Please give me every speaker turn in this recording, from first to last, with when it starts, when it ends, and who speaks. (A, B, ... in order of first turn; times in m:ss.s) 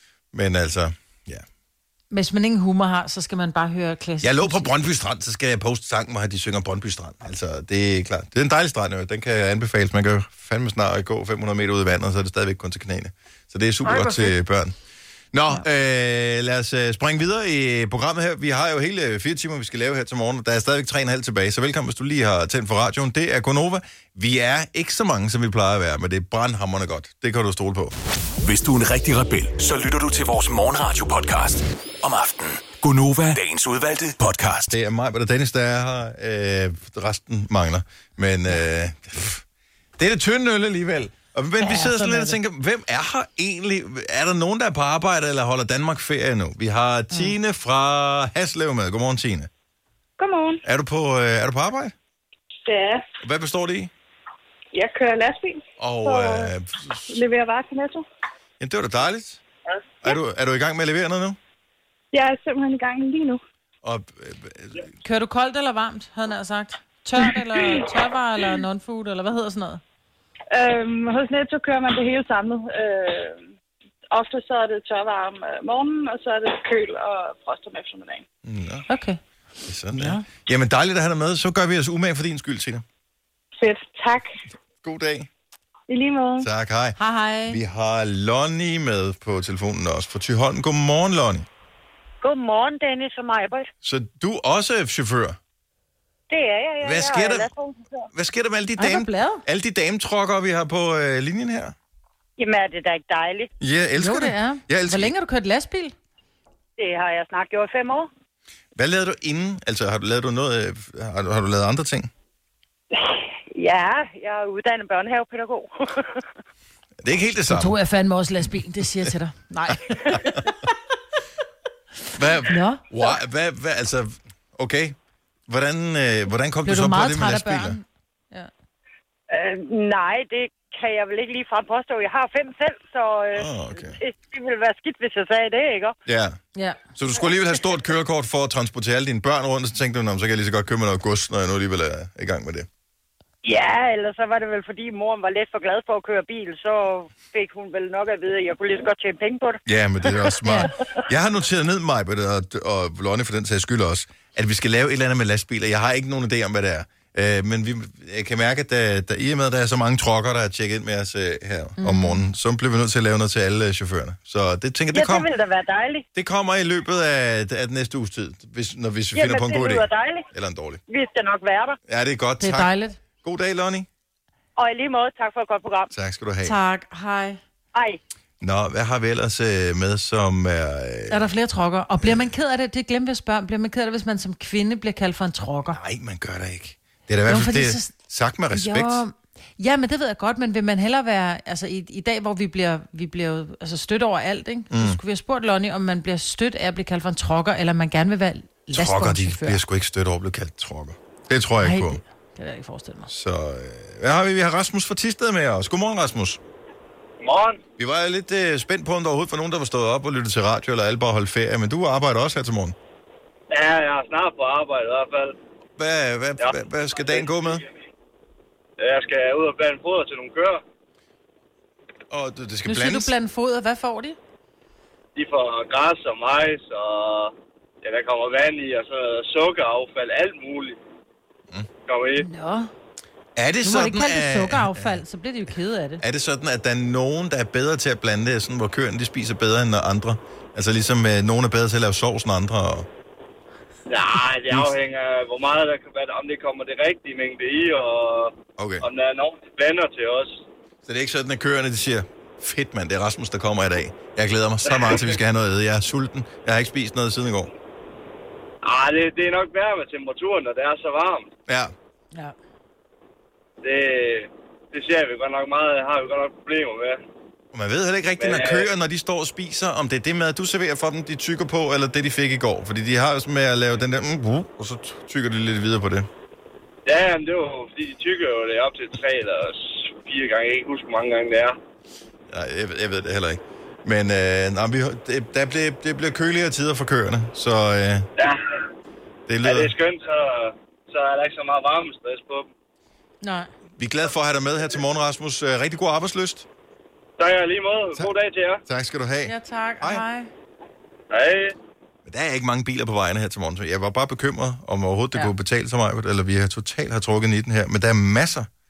0:00.3-0:01.4 A
0:02.1-0:04.7 B
0:04.2-0:14.7 A
0:13.8-0:14.3 B
0:15.3-0:27.9 A
0:28.4-0:34.8 C
0:34.7-0:39.4 A
0:40.0-0:49.5 A
0:41.6-0:42.4 B
0:50.2-0:50.6 D
0:50.6-0:51.9 A
0:52.6-0:53.0 D
0:53.2-0:53.9 A
0:54.7-0:56.4 D
0:55.8-0:57.2 A
0:57.1-0:58.0 D
0:58.6-0:59.4 A
1:00.0-1:01.4 A
1:02.1-1:03.4 D
1:03.8-1:04.8 A
1:05.0-1:09.8 B
1:10.5-1:13.4 D
1:14.1-1:18.2 D
1:18.4-1:18.8 A
1:18.9-1:19.2 B
1:19.6-1:22.8 A
1:19.9-1:20.2 B
1:23.6-1:24.2 D
1:24.8-1:25.3 A
1:26.4-1:27.0 A
1:27.0-1:27.6 B
1:27.5-1:31.4 A
1:32.2-1:33.7 E
1:33.8-1:35.4 A
1:36.3-1:37.7 E
1:36.8-1:37.5 A
1:38.1-1:41.7 A
1:38.8-1:39.4 B
1:42.4-1:43.5 E
1:43.6-1:45.1 A
1:44.0-1:45.9 B
1:46.8-1:48.1 E
1:48.8-1:52.1 A
1:53.5-1:55.8 E
1:57.0-1:57.7 A
1:57.5-2:00.4 B
2:00.0-2:00.4 A
2:02.1-2:05.0 A
2:02.5-2:02.8 B
2:05.5-2:07.8 A
2:06.6-2:08.5 B
2:09.3-2:15.9 E
2:13.3-2:14.0 A
2:16.0-2:16.4 A
2:16.6-2:16.8 B
2:17.0-2:22.7 A
2:23.4-2:29.6 E
2:29.6-2:45.3 A
2:41.8-2:42.2 B
2:44.9-2:46.0 E
2:46.1-2:50.8 A
2:49.2-2:50.2 E
2:50.9-2:51.6 E
2:51.9-2:52.7 A
2:52.4-2:53.0 B
2:53.2-2:53.9 A
2:54.6-2:55.9 E
2:55.9-2:56.6 A
2:56.4-2:57.4 B
2:58.4-3:01.2 A
3:01.1-3:05.8 B
3:05.7-3:09.0 A
3:07.3-3:07.9 B
3:08.5-3:19.6 B
3:14.7-3:15.0 A
3:18.7-3:22.0 A
3:21.6-3:23.1 B
3:23.1-3:26.4 A
3:27.2-3:27.6 F
3:27.8-3:32.8 A
3:33.5-3:35.4 F
3:35.8-3:37.6 A
3:36.4-3:37.5 F
3:38.8-3:40.6 F
3:42.1-3:43.1 A
3:42.6-3:44.2 B
3:45.1-3:47.3 F
3:47.8-3:50.8 F
3:51.8-3:52.2 F
3:52.2-3:52.7 B
3:53.4-3:55.0 A
3:53.6-3:56.0 B
3:56.0-4:02.9 A
4:03.9-4:08.3 F
4:08.6-4:08.8 A
4:08.8-4:10.4 F
4:10.8-4:17.5 A
4:14.7-4:15.1 F
4:18.6-4:21.3 F
4:21.5-4:21.7 A
4:23.6-4:27.0 F
4:27.5-4:36.1 A
4:28.2-4:28.7 F
4:36.8-4:41.6 F
4:42.3-4:48.0 A
4:49.3-4:49.7 A
4:49.4-4:52.4 F
4:53.2-4:53.5 B
4:53.8-4:56.5 A
4:57.2-4:58.6 F
4:58.6-5:00.0 A
4:59.2-5:00.3 B
5:01.1-5:01.5 F
5:02.0-5:08.5 A